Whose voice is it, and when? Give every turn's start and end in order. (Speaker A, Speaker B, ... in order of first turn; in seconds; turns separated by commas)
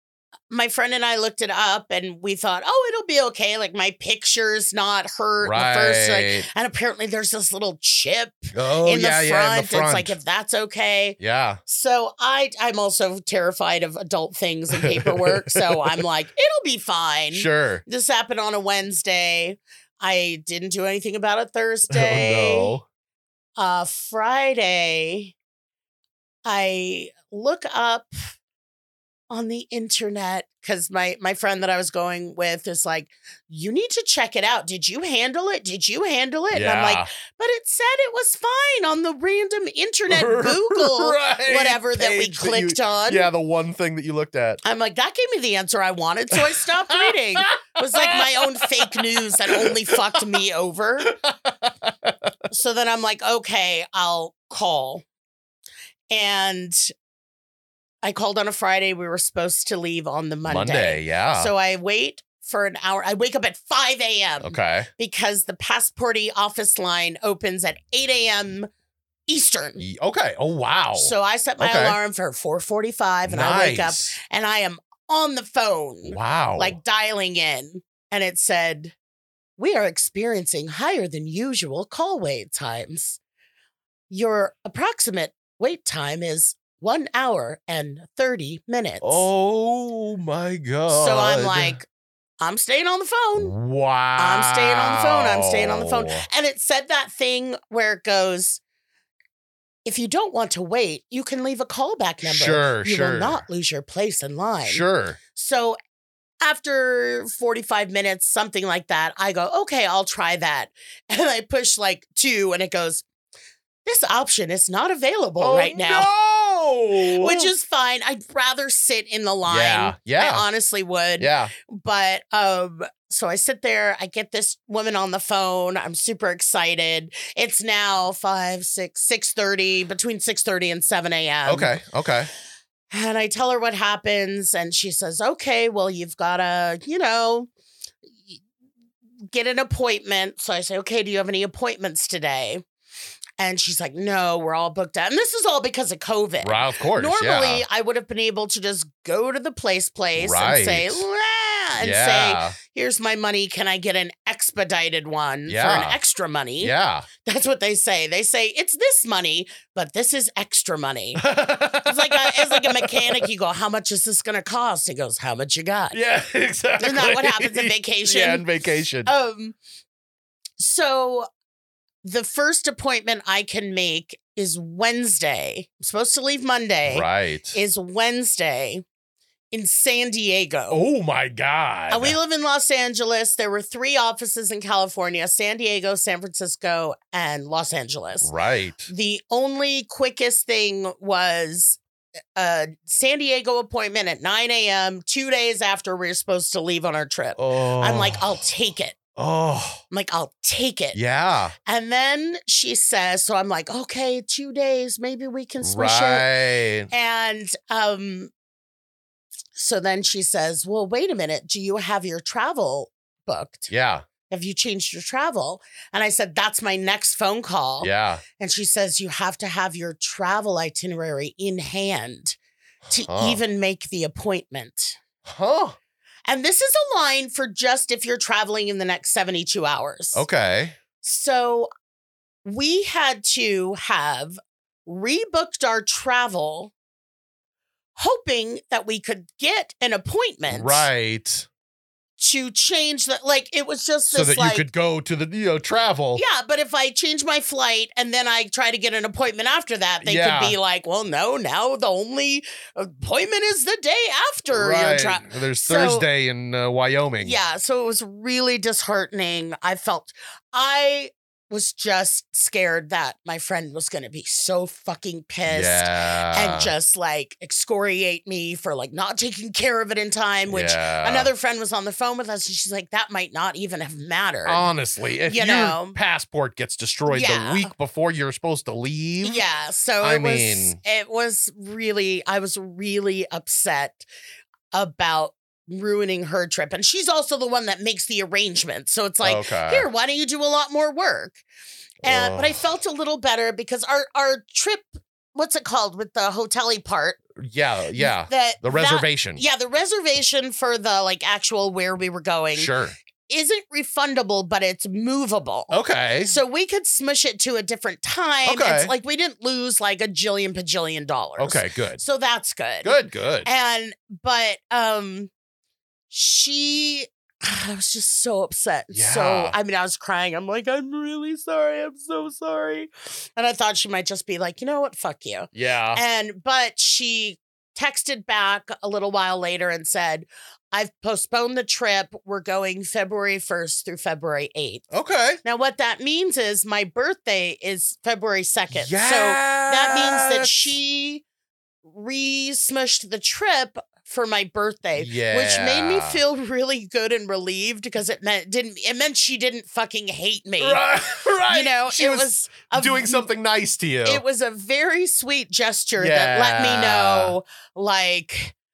Speaker A: 0.5-22.7, Speaker B: 5.4-6.5, Speaker B: 8.5-10.2, Speaker B: 11.2-11.6, Speaker B: 14.8-16.0, Speaker B: 17.3-17.8, Speaker B: 21.9-22.8, Speaker A: 23.6-25.3, Speaker A: 26.4-28.3, Speaker A: 29.3-43.3, Speaker B: 36.5-37.1, Speaker B: 40.1-44.6, Speaker A: 44.6-51.1, Speaker B: 46.5-50.2, Speaker B: 51.1-52.3, Speaker A: 52.5-55.0, Speaker A: 56.1-56.9, Speaker A: 58.0-68.7, Speaker B: 60.5-61.5, Speaker B: 64.4-64.9, Speaker A: 69.3-69.8, Speaker B: 69.8-72.0, Speaker A: 71.0-78.9, Speaker B: 73.2-74.2, Speaker B: 76.1-76.8, Speaker A: 79.6-83.2, Speaker A: 84.1-89.3, Speaker B: 89.0-91.8, Speaker A: 90.9-91.9, Speaker A: 92.4-93.5, Speaker B: 93.4-96.2, Speaker A: 94.2-98.6, Speaker A: 99.8-105.8, Speaker B: 102.2-103.5, Speaker B: 104.6-105.2, Speaker A: 106.4-113.0, Speaker A: 113.8-116.1, Speaker B: 115.4-117.5, Speaker A: 117.2-131.8, Speaker B: 119.5-120.4, Speaker B: 121.2-121.5, Speaker B: 131.4-132.3, Speaker A: 132.9-137.5, Speaker A: 139.3-142.6, Speaker A: 143.4-166.0, Speaker B: 146.4-147.6, Speaker B: 150.2-151.0, Speaker B: 151.8-152.6, Speaker B: 155.5-156.0, Speaker B: 156.6-157.1, Speaker B: 161.2-163.3, Speaker B: 165.9-169.1, Speaker A: 166.8-168.4, Speaker A: 169.0-169.6, Speaker A: 170.6-171.3, Speaker A: 172.0-178.8, Speaker B: 176.9-177.6, Speaker A: 179.5-180.8, Speaker B: 180.7-182.2, Speaker A: 181.9-188.3, Speaker B: 188.2-188.9, Speaker A: 188.9-191.8, Speaker A: 192.4-198.9, Speaker B: 197.3-198.4, Speaker B: 199.2-199.8, Speaker A: 199.9-201.0, Speaker B: 200.9-201.5, Speaker A: 201.7-206.3, Speaker B: 205.6-206.9, Speaker A: 206.9-208.3, Speaker A: 209.6-213.7, Speaker B: 213.7-214.1, Speaker A: 214.3-222.4, Speaker B: 217.8-218.2, Speaker B: 222.8-223.4, Speaker A: 222.9-225.0, Speaker B: 225.2-225.8, Speaker A: 226.2-230.2, Speaker B: 230.1-230.8, Speaker A: 231.0-231.7, Speaker A: 232.4-236.7, Speaker A: 237.9-240.9, Speaker B: 240.5-241.5, Speaker A: 242.2-244.7, Speaker B: 244.1-246.2, Speaker A: 246.1-256.1, Speaker B: 250.0-250.6, Speaker B: 254.5-257.4, Speaker A: 257.2-274.7, Speaker B: 265.4-266.7, Speaker B: 270.5-271.3, Speaker B: 274.4-279.4, Speaker A: 275.3-276.0, Speaker A: 277.1-277.7, Speaker A: 279.2-284.1, Speaker B: 280.0-280.8, Speaker A: 284.7-291.4, Speaker B: 289.2-289.9, Speaker B: 292.0-292.6, Speaker A: 292.0-297.2, Speaker B: 297.4-299.4, Speaker A: 297.9-302.7, Speaker B: 302.5-302.9, Speaker A: 303.3-315.3, Speaker B: 305.7-306.4, Speaker B: 308.4-308.9, Speaker B: 311.4-312.0, Speaker B: 312.8-313.5, Speaker A: 316.1-334.8, Speaker B: 318.9-319.6, Speaker B: 325.5-326.0, Speaker B: 334.9-335.4, Speaker A: 335.4-341.2, Speaker B: 338.7-340.8, Speaker A: 341.8-350.8, Speaker B: 345.0-346.2, Speaker B: 350.6-354.2, Speaker A: 351.4-353.3, Speaker A: 354.0-358.5, Speaker B: 356.0-357.4